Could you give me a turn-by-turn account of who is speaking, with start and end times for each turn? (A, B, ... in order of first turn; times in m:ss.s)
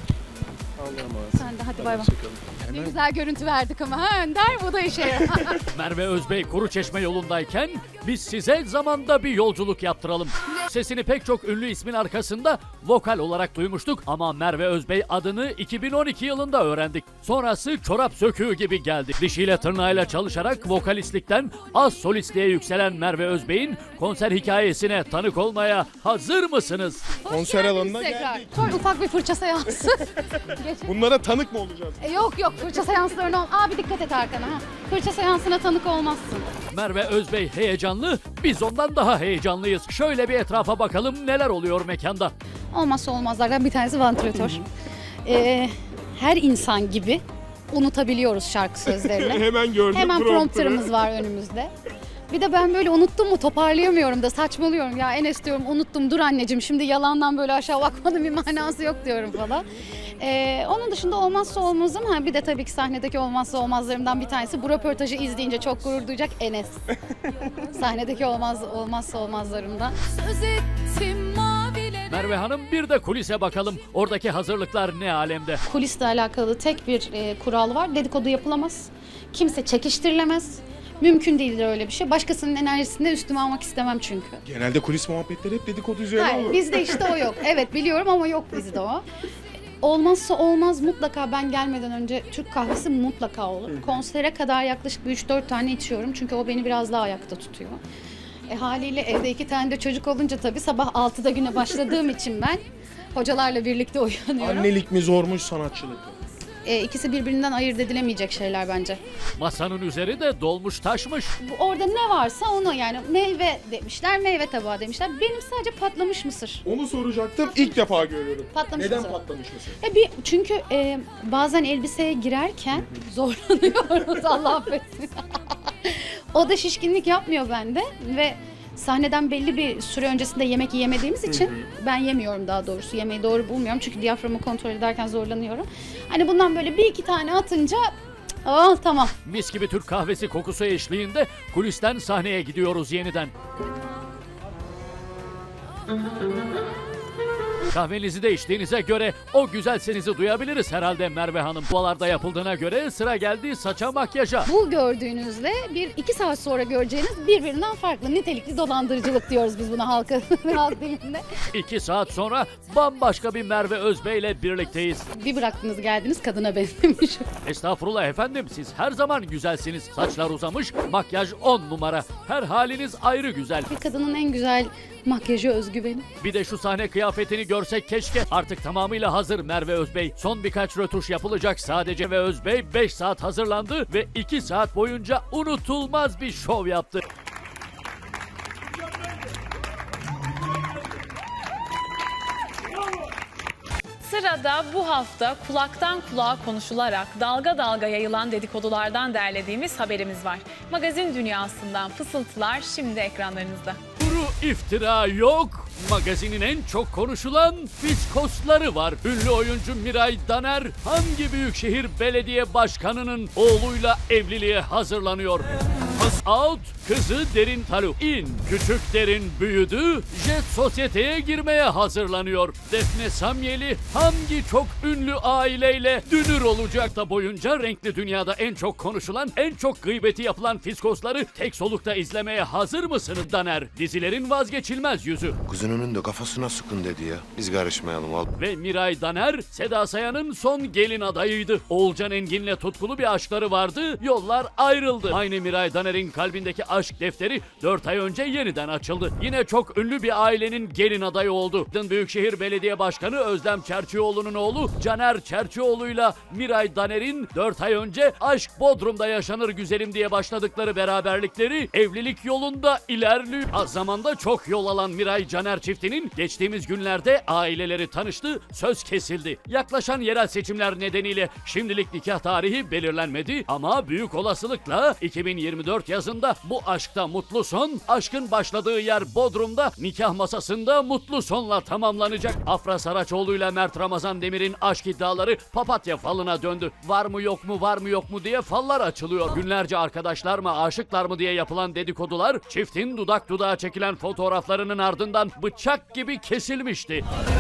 0:00.8-0:02.9 A
0:01.3-0:02.1 B
0:02.7-0:05.7 B
0:05.7-0:27.1 C
0:27.2-0:30.9 B
0:27.3-0:28.8 A
0:30.4-0:32.0 A
0:32.0-0:36.5 B
0:36.7-0:42.3 C
0:42.7-0:44.7 B
0:45.2-0:51.7 B
0:48.9-0:50.9 A
0:52.3-0:59.6 B
1:00.2-1:06.9 B
1:07.7-1:12.2 B
1:12.1-1:15.6 C
1:15.7-1:24.4 B
1:24.5-1:27.2 A
1:26.2-1:29.0 B
1:29.8-1:37.8 B
1:38.5-1:42.6 B
1:43.1-1:44.7 B
1:44.4-1:46.2 A
1:46.6-1:49.0 B
1:49.4-1:51.4 C
1:51.4-1:56.6 B
1:56.6-1:59.8 A
1:58.5-1:59.2 B
1:59.8-2:05.2 B
2:05.8-2:17.9 B
2:18.4-2:19.1 B
2:19.2-2:23.3 C
2:27.7-2:34.5 C
2:34.5-2:41.2 B
2:41.5-2:45.1 C
2:45.1-2:47.3 B
2:47.4-2:53.7 C
2:53.7-2:56.1 B
2:56.2-3:07.0 C
3:14.0-3:23.8 D
3:24.0-3:55.4 C
3:55.5-3:58.3 E
3:58.3-4:57.0 C